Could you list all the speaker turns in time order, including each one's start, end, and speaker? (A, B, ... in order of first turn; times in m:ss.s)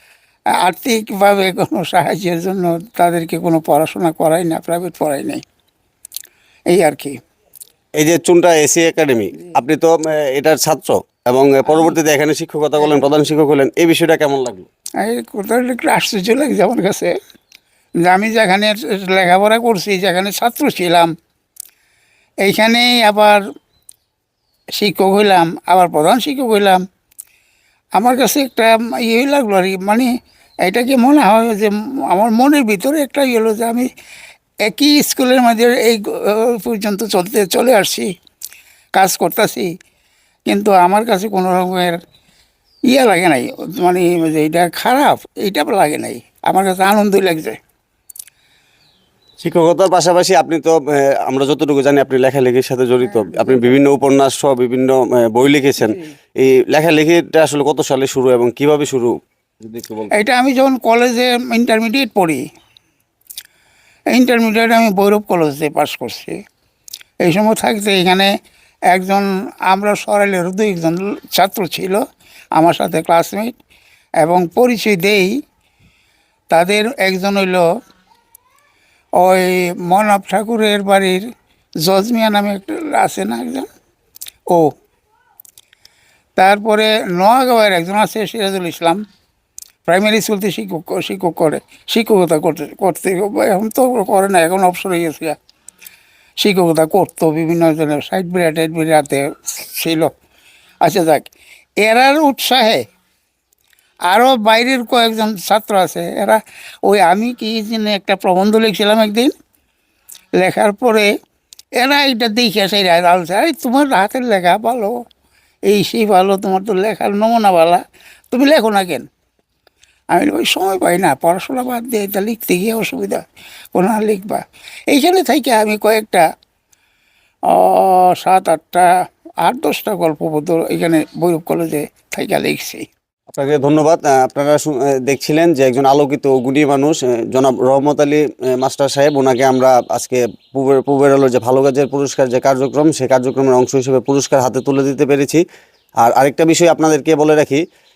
0:00.6-0:05.4 A
0:06.7-0:07.2 A
0:08.0-0:14.7 B
0:11.7-0:11.9 A
0:12.8-0:13.1 A
0:15.0-0:17.1 A
0:18.0-0:21.1 A
0:22.4-0:23.4 A
0:24.8-0:26.8 A
0:28.0-0:30.1 A
0:30.6-0:33.9 A
0:34.6-0:38.1 A
0:38.9-0:39.7 A
0:40.5-0:42.0 A
0:42.9-0:47.6 A
0:49.4-1:00.2 B
0:53.0-0:53.8 A
1:00.1-1:02.4 A
1:04.1-1:06.4 A
1:07.2-1:08.3 A
1:08.9-1:12.0 A
1:12.6-1:13.5 A
1:14.2-1:15.3 A
1:16.5-1:17.6 A
1:19.2-1:21.2 A
1:21.8-1:23.7 A
1:26.4-1:29.0 A
1:29.9-1:35.4 A
1:36.4-1:40.1 A
1:40.8-1:41.3 A
1:41.8-1:42.8 A
1:44.1-1:49.3 A
1:50.4-1:51.1 A
1:51.8-1:55.0 A
1:55.6-1:59.1 A
2:00.1-2:03.2 A
2:03.7-2:06.2 A
2:07.5-2:08.9 A
2:09.4-2:12.8 A
2:13.3-2:25.4 B
2:26.0-2:27.6 B